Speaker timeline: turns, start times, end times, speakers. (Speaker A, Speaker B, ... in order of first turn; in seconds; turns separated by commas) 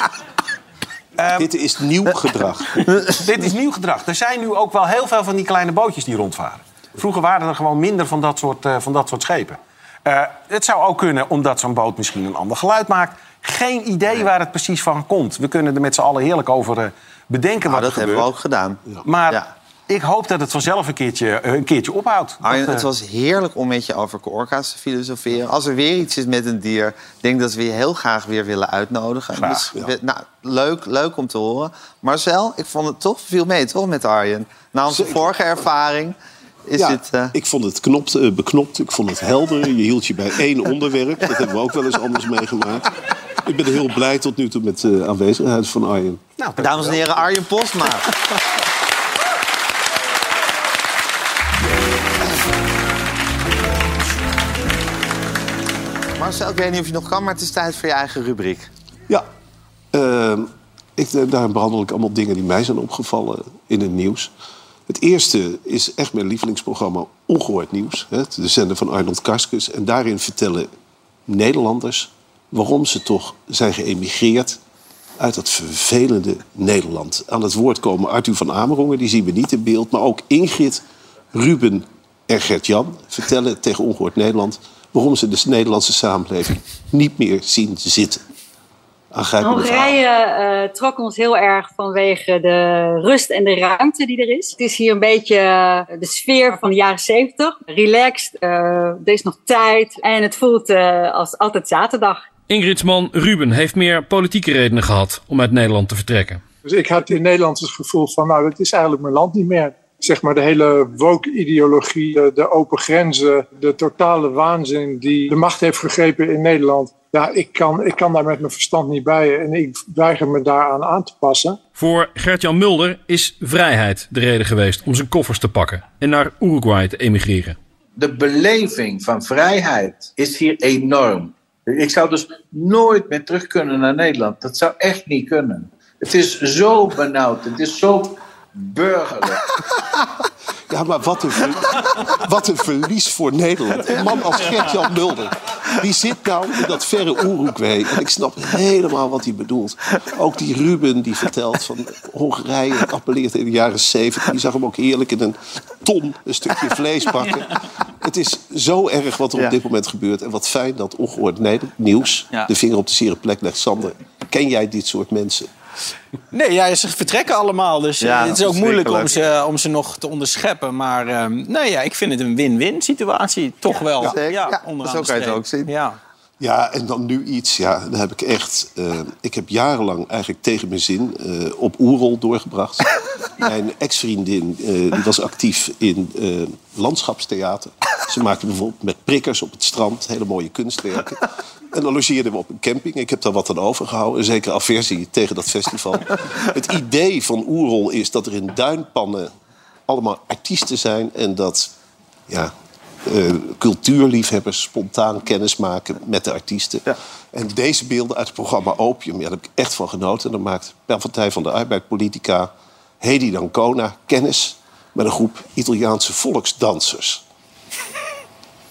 Speaker A: 1.2-1.5, Speaker B: 1.4-2.8, Speaker C: 2.9-3.3, Speaker A: 3.2-18.3, Speaker C: 17.6-19.5, Speaker A: 19.0-22.9, Speaker C: 22.4-37.3, Speaker A: 29.4-29.7, Speaker B: 34.9-35.3, Speaker B: 36.8-46.2, Speaker A: 46.4-47.0, Speaker C: 46.6-48.1, Speaker C: 56.2-58.7, Speaker B: 59.9-64.3, Speaker B: 64.9-70.7, Speaker B: 71.3-74.6, Speaker B: 75.2-80.8, Speaker B: 81.3-88.2, Speaker B: 89.1-90.0, Speaker D: 89.4-102.2, Speaker E: 102.5-106.4, Speaker F: 106.7-121.6, Speaker E: 121.8-127.6, Speaker G: 128.0-139.4, Speaker B: 140.7-165.5, Speaker H: 166.3-176.0, Speaker C: 168.0-169.1, Speaker C: 173.7-175.7, Speaker B: 176.4-199.3, Speaker B: 199.9-201.7, Speaker B: 202.3-217.2